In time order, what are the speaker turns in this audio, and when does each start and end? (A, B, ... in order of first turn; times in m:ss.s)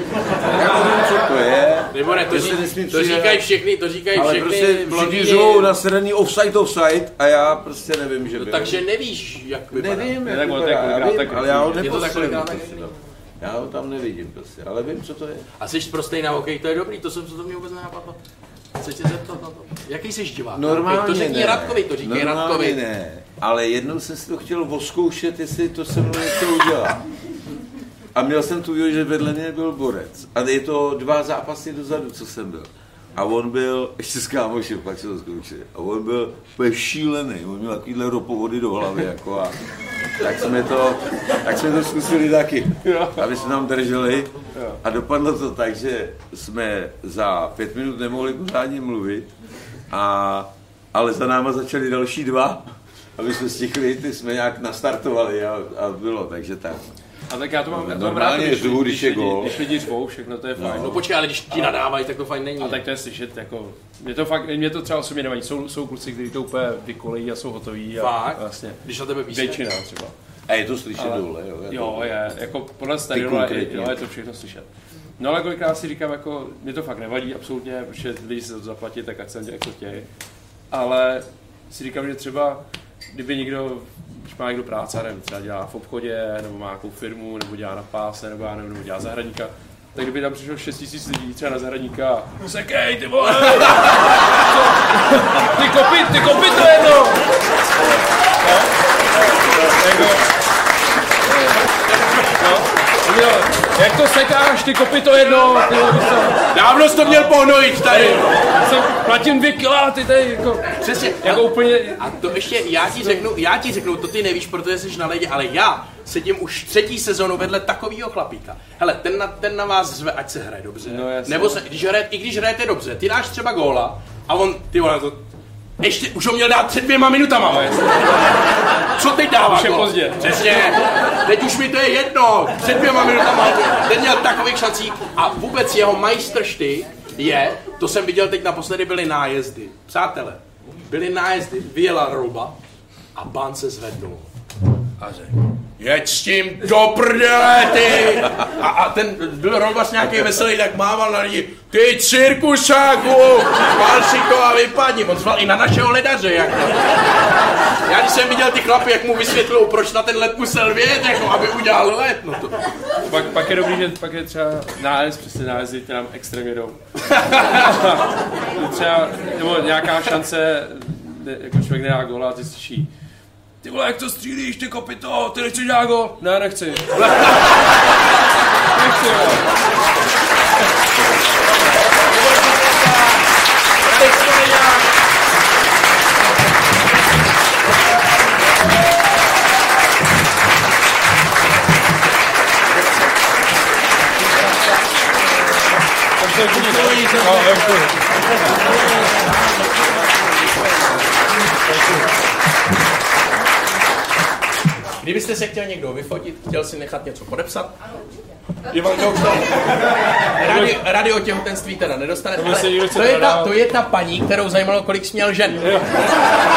0:00.4-0:03.4 A
0:01.9-0:05.8 B
0:04.1-0:08.8 A
0:08.3-0:10.2 B
0:09.7-0:15.5 A
0:10.2-0:12.0 C
0:11.8-0:12.9 B
0:15.6-0:18.2 B
0:18.8-0:22.8 B
0:20.5-0:27.0 A
0:28.1-0:39.6 A
0:40.2-0:49.3 A
0:42.8-0:43.2 C
0:44.5-0:44.8 C
0:49.9-0:56.9 A
0:57.3-1:01.8 C
0:57.7-0:59.6 A
1:00.6-1:01.0 A
1:00.8-1:02.9 B
1:02.6-1:10.1 C
1:07.9-1:09.6 B
1:10.5-1:12.2 A
1:11.0-1:20.1 C
1:13.0-1:14.0 A
1:20.7-1:22.6 C
1:23.1-1:37.2 C
1:33.3-1:34.1 B
1:38.4-1:38.7 C
1:39.6-1:40.3 C
1:41.3-1:41.6 C
1:41.9-1:42.3 B
1:42.3-1:46.4 C
1:46.5-1:48.3 B
1:47.0-1:47.3 C
1:47.8-1:52.1 C
1:50.7-2:05.2 B
2:00.8-2:01.6 C
2:05.8-2:22.6 B
2:09.4-2:10.4 C
2:23.1-2:24.3 B
2:25.8-2:37.1 B
2:37.8-2:42.6 B
2:43.1-2:52.9 C
2:53.6-2:57.3 C
2:58.7-2:59.5 C
3:01.9-3:03.3 B
3:03.8-3:04.9 B
3:16.2-3:18.1 C
3:16.4-3:18.8 B
3:21.7-3:22.0 B
3:25.0-3:27.7 B
3:28.7-3:35.9 B
3:28.8-3:29.1 C
3:30.4-3:30.7 C
3:32.3-3:33.6 C
3:35.6-3:36.0 C